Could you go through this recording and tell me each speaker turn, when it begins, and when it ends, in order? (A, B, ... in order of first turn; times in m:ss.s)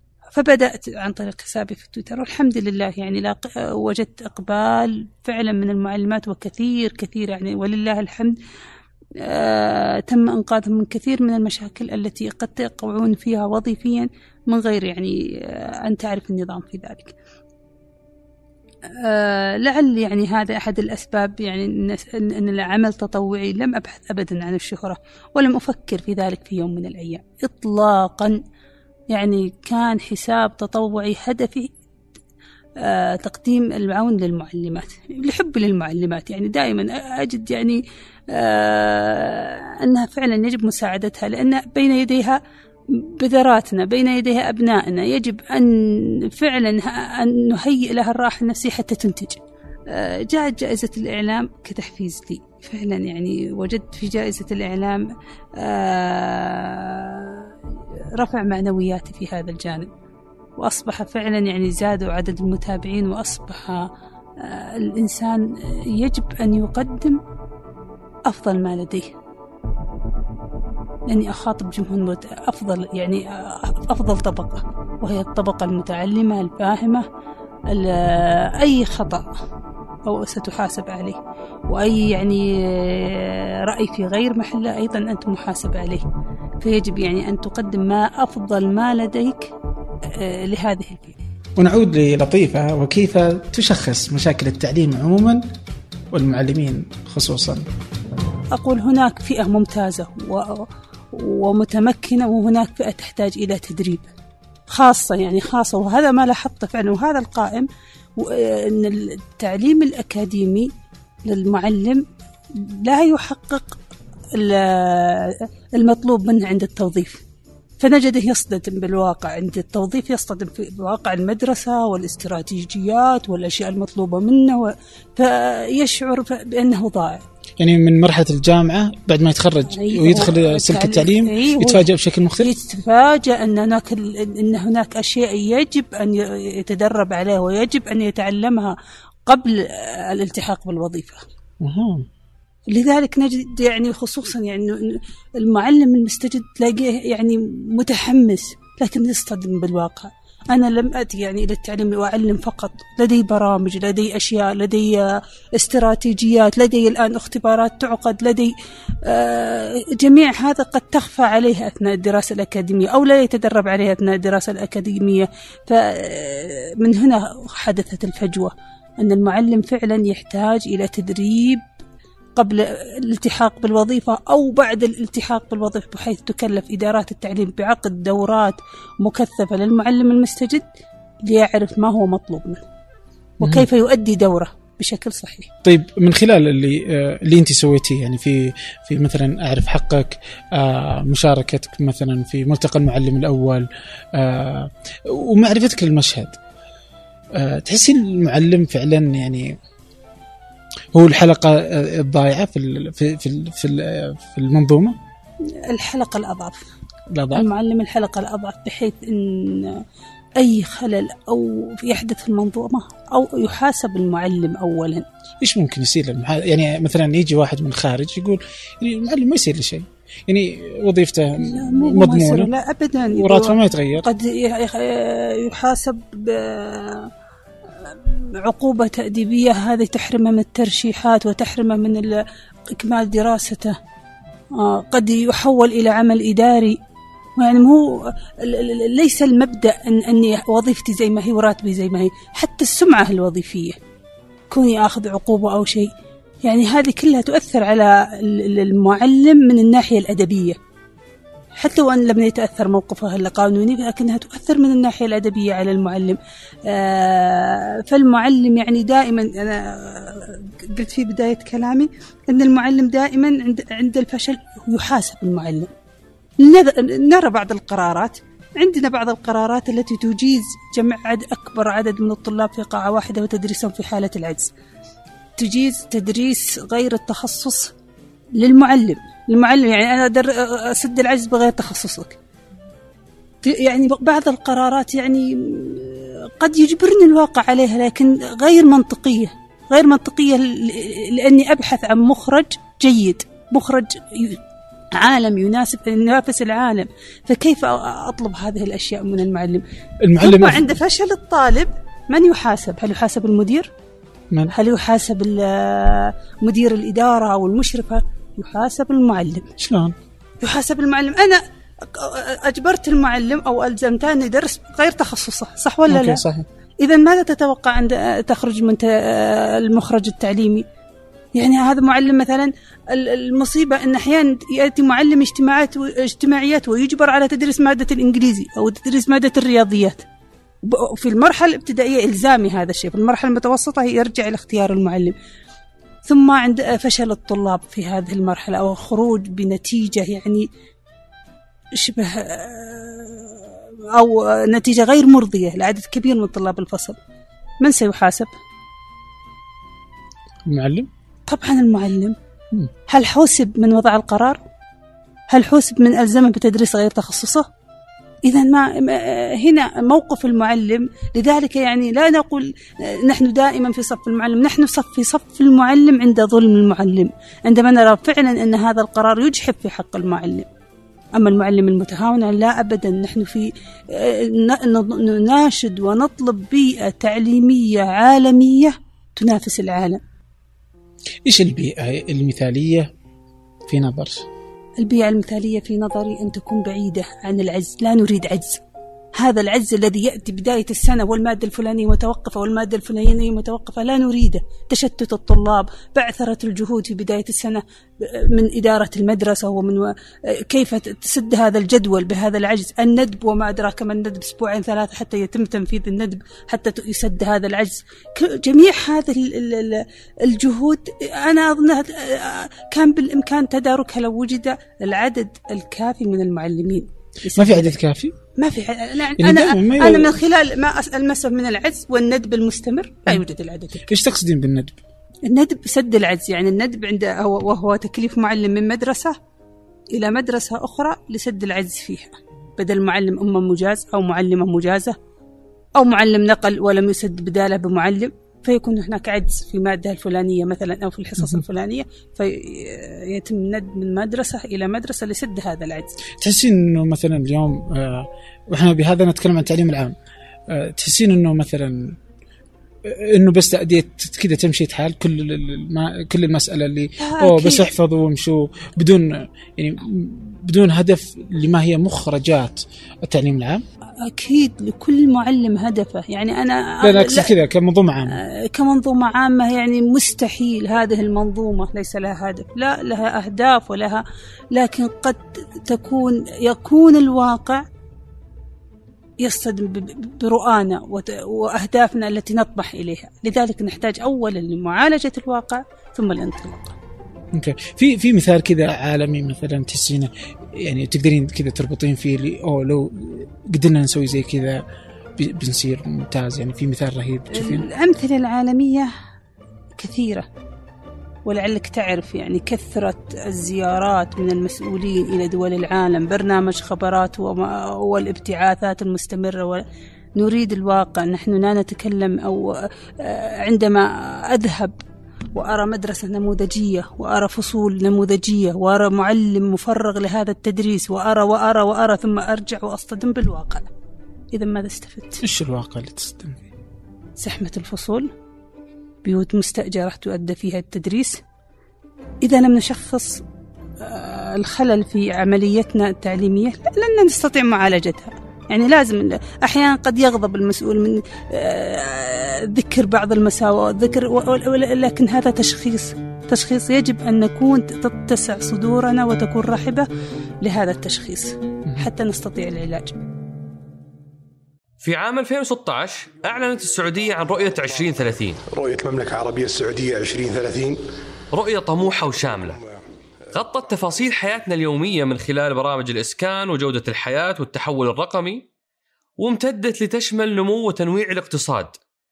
0:00.3-0:08.4 A
0:09.2-0:17.1 A
0:19.0-0:28.4 A
0:29.1-0:31.7 A
0:32.8-0:37.8 A
0:38.3-0:42.4 A
0:42.9-0:57.5 A
0:58.1-0:59.9 A
1:00.6-1:07.2 A
1:08.3-1:09.1 A
1:11.1-1:17.0 A
1:17.7-1:19.3 A
1:20.0-1:26.0 A
1:26.6-1:29.5 A
1:30.1-1:31.2 A
1:31.6-1:35.4 B
1:36.1-1:37.6 B
1:38.5-1:44.1 A
1:44.7-1:50.7 A
1:51.2-1:53.8 A
1:54.3-1:57.2 A
1:57.8-2:07.2 A
2:07.6-2:12.5 B
2:09.7-2:11.9 A
2:12.4-2:18.7 A
2:19.2-2:21.2 A
2:21.6-2:22.1 B
2:22.7-2:38.5 A
2:39.0-2:51.6 A
2:52.4-3:00.6 A
3:01.2-3:02.6 A
3:03.4-3:03.7 B
3:03.4-3:05.5 A
3:05.6-3:16.4 B
3:17.3-3:19.6 B
3:20.9-3:25.0 B
3:25.7-3:26.7 A
3:27.1-3:27.5 B
3:27.3-3:29.8 A
3:30.4-3:35.0 A
3:35.4-3:42.5 B
3:41.4-3:47.1 A
3:43.1-3:44.1 B
3:47.8-3:53.8 A
3:54.5-3:56.8 A
3:57.4-4:03.8 A
4:04.5-4:05.9 A
4:06.4-4:10.6 A
4:11.6-4:25.7 A
4:26.4-4:34.5 A
4:35.4-4:37.7 A
4:38.3-4:42.2 A
4:43.4-4:54.4 A
4:54.9-4:59.6 A
5:00.0-5:00.7 B
5:00.2-5:03.7 A
5:04.5-5:09.5 A
5:09.6-5:09.9 B
5:10.4-5:16.2 A
5:15.9-5:16.4 B
5:16.8-5:20.6 A
5:21.3-5:30.0 A
5:30.6-5:35.1 A
5:36.0-5:40.4 A
5:41.8-5:47.0 A
5:47.6-5:48.3 A
5:50.4-5:50.9 B
5:51.3-5:52.2 A
5:52.9-5:54.4 A
5:55.3-5:57.5 A
5:58.2-6:10.5 A
6:11.2-6:20.0 A
6:21.2-6:22.9 B
6:23.7-6:24.2 B
6:24.8-6:28.6 A
6:29.1-6:57.8 A
6:57.3-6:58.1 B
6:58.4-7:03.9 A
6:59.2-7:00.2 B
7:03.9-7:04.8 B
7:05.2-7:09.2 A
7:09.9-7:15.0 A
7:15.8-7:25.9 A
7:26.2-7:30.0 B
7:30.5-7:32.0 B
7:32.8-7:43.6 B
7:37.0-7:37.7 A
7:44.0-7:47.3 A
7:46.8-7:48.2 B
7:48.1-7:54.0 A
7:54.5-7:57.6 A
7:59.2-8:06.7 A
8:07.3-8:14.6 B
8:15.2-8:17.7 B
8:17.3-8:18.9 A
8:19.8-8:20.2 A
8:21.2-8:29.6 A
8:30.2-8:34.8 A
8:35.3-8:43.7 A
8:44.3-8:45.2 A
8:45.2-8:46.5 B
8:47.2-8:48.1 A
8:49.0-8:51.2 A
8:52.2-8:53.2 A
8:53.8-9:09.9 A
9:10.4-9:12.9 A
9:14.8-9:18.4 C
9:18.5-9:20.8 D
9:21.3-9:22.6 C
9:23.3-9:28.4 C
9:29.2-9:31.8 C